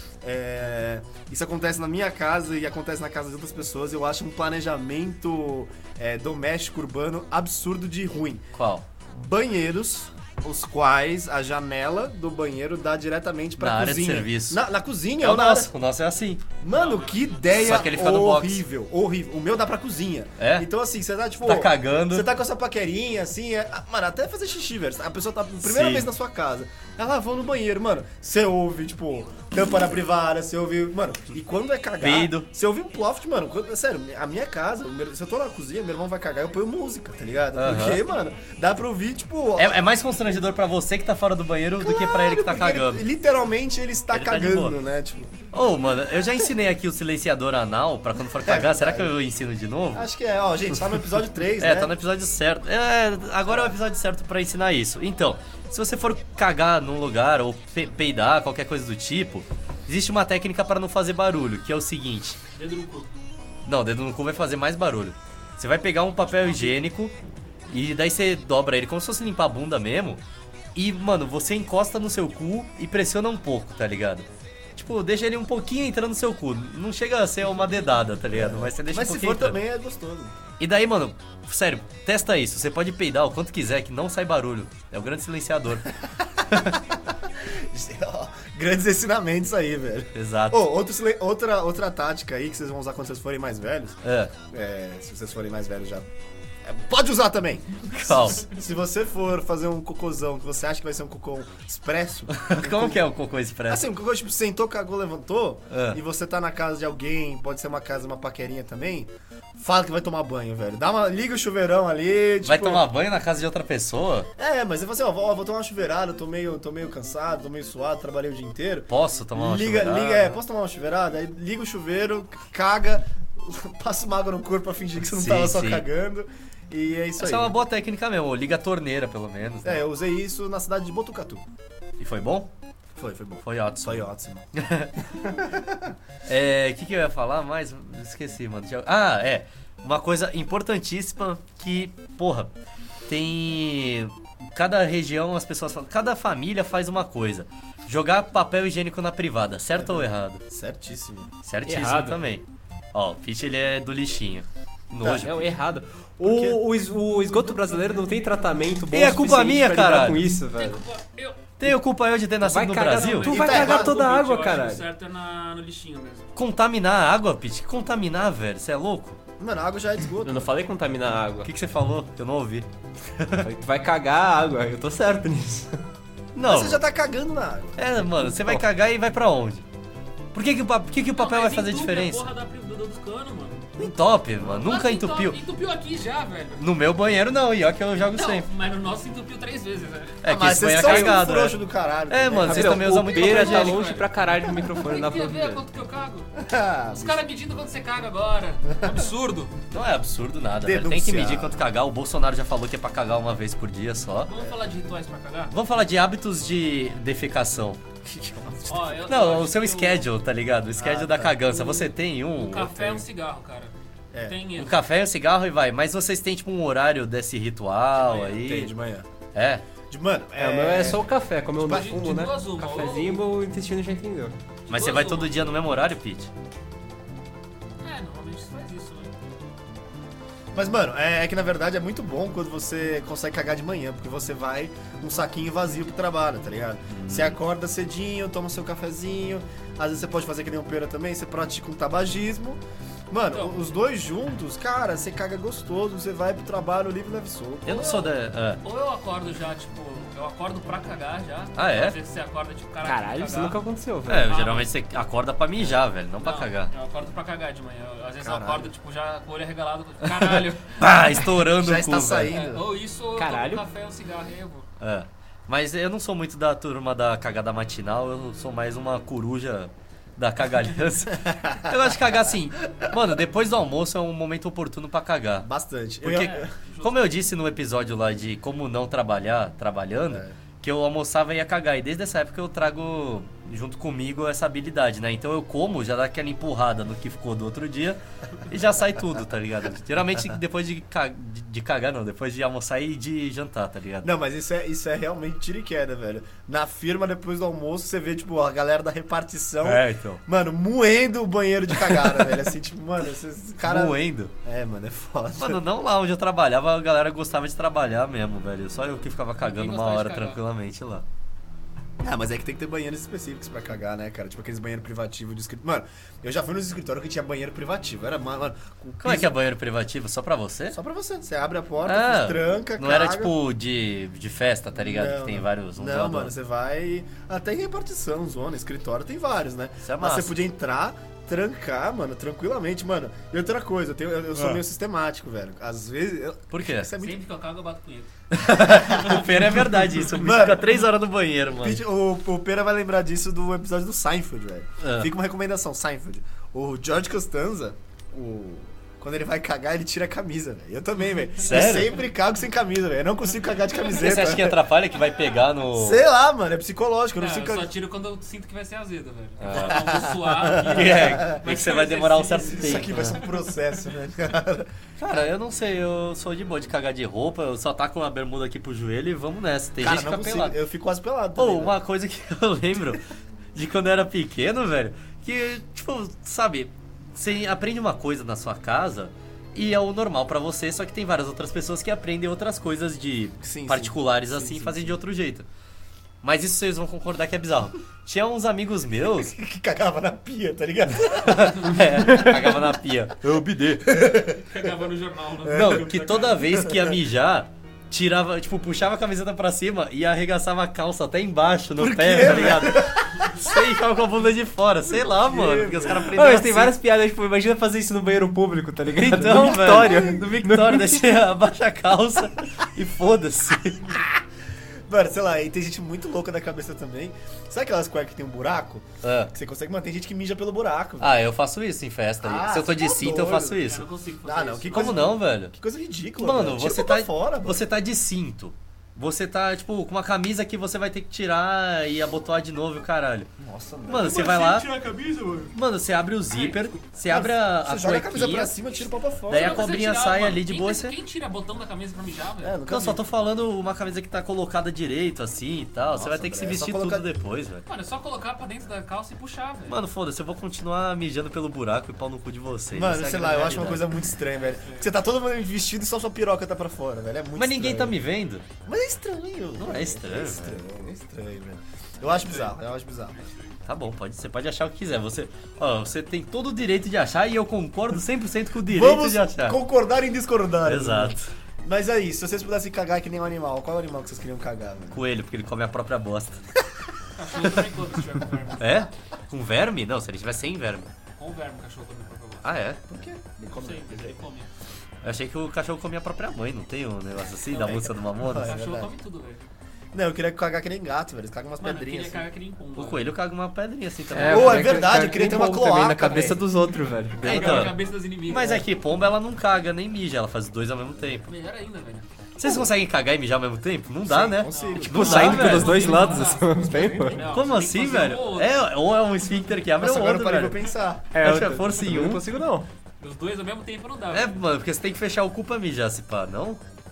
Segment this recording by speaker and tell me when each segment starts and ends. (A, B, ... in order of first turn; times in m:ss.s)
0:00.2-0:08.4 A
0:08.6-0:08.8 B
0:09.1-0:15.7 A
0:13.6-0:14.6 B
0:15.2-0:16.4 B
0:16.6-0:39.8 A
0:16.7-0:17.5 C
0:17.6-0:18.6 B
0:20.4-0:20.7 B
0:21.4-0:22.3 B
0:25.6-0:26.1 B
0:32.0-0:32.5 B
0:37.6-0:38.0 B
0:39.6-0:43.0 B
0:41.8-0:45.3 A
0:44.1-0:44.8 B
0:45.5-0:50.1 B
0:48.4-0:49.2 A
0:49.9-0:51.9 A
0:51.6-1:02.4 B
0:53.5-0:53.8 A
1:02.6-1:03.1 C
1:03.6-1:07.1 B
1:06.3-1:06.8 C
1:07.7-1:10.2 B
1:10.8-1:19.6 B
1:18.3-1:20.4 A
1:20.6-1:25.9 B
1:26.5-1:26.8 B
1:27.4-1:36.1 A
1:30.2-1:30.6 B
1:34.0-1:34.3 B
1:36.6-1:43.0 A
1:37.9-1:38.5 B
1:42.3-1:43.9 B
1:43.7-1:52.9 A
1:45.7-1:46.0 B
1:52.4-1:54.3 B
1:54.4-2:07.5 A
1:58.9-2:00.4 B
2:05.0-2:05.9 B
2:07.2-2:09.8 B
2:09.6-2:11.4 A
2:12.0-2:12.5 B
2:13.0-2:14.5 A
2:13.4-2:14.9 B
2:15.2-2:16.0 A
2:16.3-2:22.5 B
2:23.1-2:30.4 B
2:29.7-2:31.3 A
2:31.4-2:35.3 B
2:31.7-2:32.2 D
2:35.0-2:35.4 A
2:35.2-2:40.8 D
2:36.2-2:36.6 A
2:38.9-2:40.3 B
2:40.6-2:41.5 C
2:41.6-2:43.4 B
2:42.4-2:44.8 D
2:43.0-2:46.3 C
2:43.3-2:44.0 A
2:46.4-2:49.2 B
2:49.4-2:50.5 A
2:50.2-2:51.5 D
2:51.4-2:52.7 B
2:53.2-2:53.5 B
2:53.4-2:55.8 D
2:56.4-2:56.8 B
2:56.4-2:57.8 A
2:57.8-2:59.6 B
2:58.1-2:58.6 D
3:00.3-3:02.3 B
3:01.1-3:03.7 C
3:03.8-3:05.4 B
3:04.5-3:06.7 C
3:06.6-3:08.5 B
3:08.1-3:10.2 C
3:10.2-3:13.9 B
3:10.2-3:12.9 A
3:10.8-3:11.1 D
3:12.4-3:15.6 D
3:13.0-3:14.1 C
3:14.8-3:16.3 C
3:16.4-3:17.3 A
3:16.9-3:19.5 C
3:19.7-3:24.3 B
3:20.6-3:21.6 A
3:24.3-3:25.5 C
3:25.5-3:33.0 B
3:28.3-3:28.8 A
3:28.7-3:30.1 C
3:30.8-3:31.4 A
3:31.5-3:33.7 C
3:34.1-3:34.4 A
3:34.2-3:34.8 C
3:34.6-3:38.7 B
3:38.0-3:38.4 C
3:38.3-3:39.1 A
3:39.3-3:39.6 B
3:39.9-3:41.1 A
3:40.4-3:44.4 D
3:41.6-3:42.0 A
3:41.6-3:43.2 C
3:44.7-3:45.4 C
3:44.7-3:46.3 B
3:47.8-3:49.1 C
3:50.5-4:08.0 A
3:56.9-3:57.4 B
4:07.6-4:08.6 B
4:07.7-4:08.1 C
4:08.6-4:13.6 C
4:11.6-4:12.0 B
4:12.8-4:14.3 D
4:14.1-4:16.7 B
4:14.3-4:14.7 C
4:16.2-4:20.9 C
4:18.2-4:18.7 A
4:20.1-4:22.3 B
4:21.5-4:22.6 A
4:22.3-4:24.7 C
4:23.2-4:23.6 D
4:24.8-4:35.5 B
4:31.2-4:32.0 A
4:35.4-4:36.5 A
4:36.0-4:54.1 B
4:36.2-4:37.1 C
4:40.1-4:40.4 A
4:54.0-5:05.6 A
4:59.6-5:00.2 B
5:01.9-5:02.3 B
5:03.6-5:04.3 B
5:05.4-5:11.1 B
5:09.4-5:10.4 C
5:12.0-5:19.3 A
5:19.0-5:20.8 B
5:20.7-5:23.3 A
5:21.8-5:26.3 B
5:24.8-5:37.2 A
5:29.8-5:30.4 B
5:34.4-5:34.6 B
5:36.5-5:36.9 B
5:37.0-5:38.1 C
5:38.3-5:41.8 B
5:38.6-5:39.6 A
5:40.1-5:40.8 A
5:41.5-5:54.6 A
5:44.8-5:45.1 B
5:51.4-5:52.0 B
5:53.9-5:56.0 B
5:55.7-5:57.7 A
5:57.2-6:03.4 C
5:59.4-6:03.2 B
5:59.5-6:01.4 A
6:02.4-6:04.7 A
6:05.0-6:10.6 B
6:09.8-6:11.8 A
6:11.4-6:13.0 B
6:13.6-6:25.5 B
6:23.4-6:25.0 A
6:26.2-6:29.3 B
6:29.0-6:32.5 A
6:31.1-6:34.0 B
6:33.8-6:34.7 A
6:34.4-6:36.4 C
6:35.4-6:37.0 A
6:35.5-6:46.8 B
6:41.8-6:43.6 A
6:44.9-6:46.2 A
6:46.0-6:51.2 D
6:49.0-6:53.9 B
6:49.6-6:50.2 A
6:53.9-6:54.2 A
6:54.9-7:01.2 A
6:59.0-6:59.3 B
7:01.0-7:03.9 B
7:02.2-7:03.6 A
7:03.6-7:05.2 C
7:04.2-7:07.6 A
7:04.7-7:05.5 B
7:06.2-7:13.3 B
7:13.4-7:14.4 A
7:13.9-7:14.7 B
7:14.0-7:15.5 C
7:15.5-7:18.6 B
7:16.3-7:16.9 C
7:17.1-7:19.7 A
7:19.3-7:21.0 B
7:19.3-7:22.6 C
7:22.4-7:23.0 A
7:22.7-7:27.6 B
7:25.9-7:27.1 A
7:27.7-7:29.8 C
7:29.7-7:33.9 B
7:32.7-7:38.0 A
7:34.4-7:34.9 C
7:37.4-7:38.4 B
7:38.6-7:43.2 A
7:39.6-7:40.6 B
7:43.2-7:43.4 C
7:43.7-7:49.6 B
7:48.6-7:55.0 A
7:50.6-7:51.3 B
7:54.9-7:56.5 B
7:57.2-7:58.8 C
7:58.6-8:00.9 B
8:01.2-8:02.6 C
8:02.4-8:02.8 B
8:02.9-8:04.2 A
8:03.5-8:04.5 C
8:05.0-8:08.5 B
8:07.6-8:08.9 A
8:08.4-8:09.5 C
8:09.9-8:12.3 A
8:11.6-8:13.1 C
8:12.8-8:14.7 B
8:14.1-8:17.7 D
8:14.3-8:16.4 A
8:17.2-8:18.6 C
8:17.2-8:21.3 B
8:21.3-8:22.1 C
8:22.4-8:25.9 B
8:24.0-8:25.3 A
8:24.5-8:28.6 C
8:24.8-8:27.3 D
8:26.7-8:26.9 A
8:27.3-8:30.6 B
8:29.8-8:31.2 A
8:31.1-8:32.7 D
8:31.2-8:32.2 B
8:33.0-8:34.4 C
8:34.1-8:36.6 B